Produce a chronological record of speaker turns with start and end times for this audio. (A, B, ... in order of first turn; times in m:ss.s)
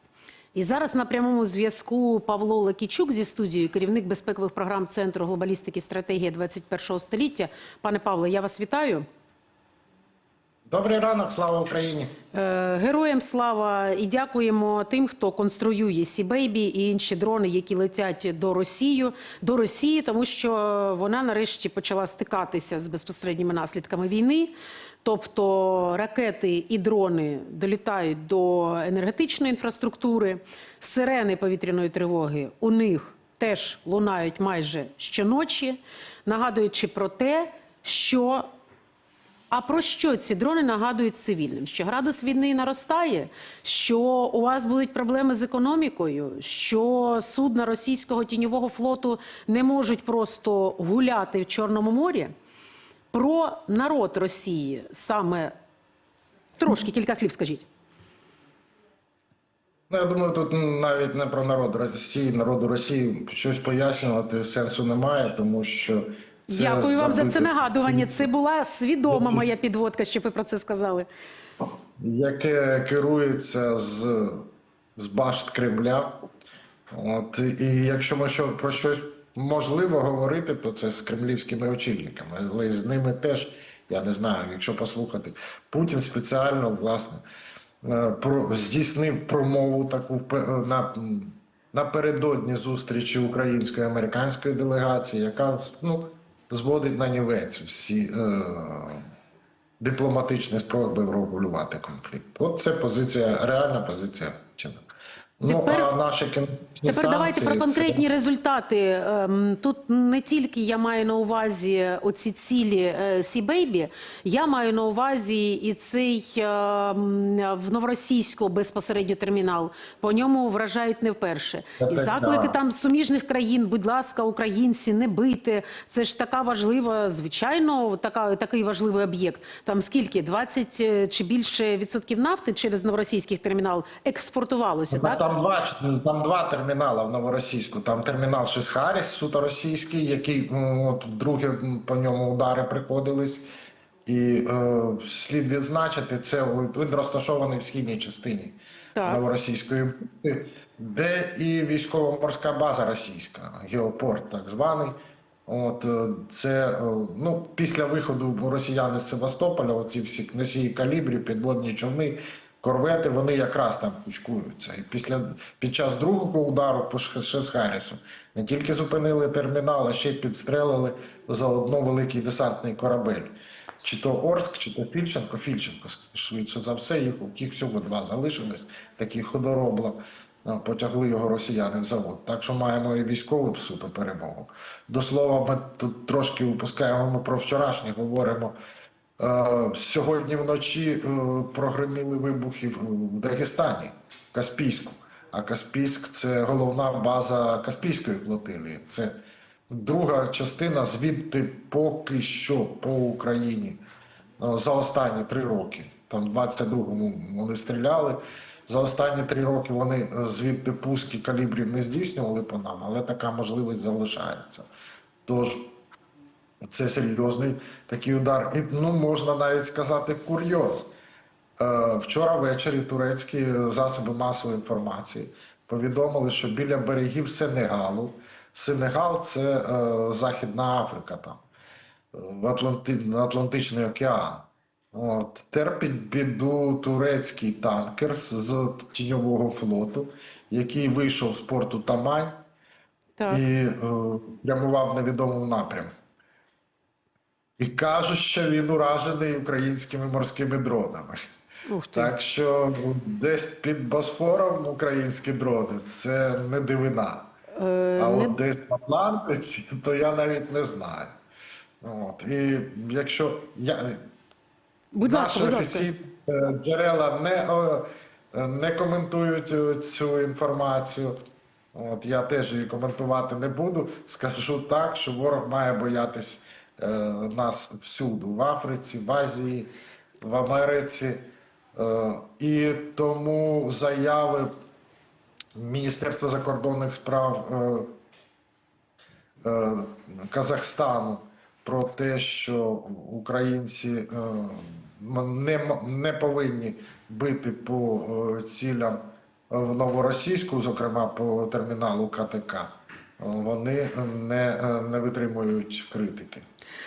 0:00.5-0:09.0 A
0:10.7-0:12.1 B
0:12.3-0:38.5 A
0:39.5-0:52.3 A
0:53.1-0:55.5 A
0:56.6-0:57.7 A
0:59.9-1:08.2 B
1:06.5-1:11.1 A
1:09.1-1:09.4 B
1:12.0-1:16.2 B
1:16.9-1:27.2 B
1:27.8-1:39.0 B
1:39.8-1:44.9 B
1:45.4-1:48.1 B
1:45.4-1:45.9 A
1:46.9-2:15.2 A
2:01.8-2:02.6 B
2:14.9-2:23.4 B
2:24.1-2:35.0 B
2:29.0-2:29.2 A
2:35.5-3:08.5 B
3:09.2-3:19.1 B
3:19.7-3:23.8 B
3:24.4-3:34.6 B
3:35.2-3:35.7 B
3:36.7-3:40.9 B
3:41.6-3:51.4 B
3:52.1-4:02.4 B
4:03.3-4:05.9 B
4:07.6-4:11.2 B
4:11.6-4:12.1 A
4:11.9-4:17.3 B
4:17.5-4:18.4 A
4:18.0-4:21.2 B
4:21.8-4:24.0 B
4:24.9-4:25.9 A
4:25.0-4:31.2 B
4:31.7-4:39.7 B
4:40.2-4:44.5 B
4:45.5-4:47.9 B
4:49.4-5:06.4 B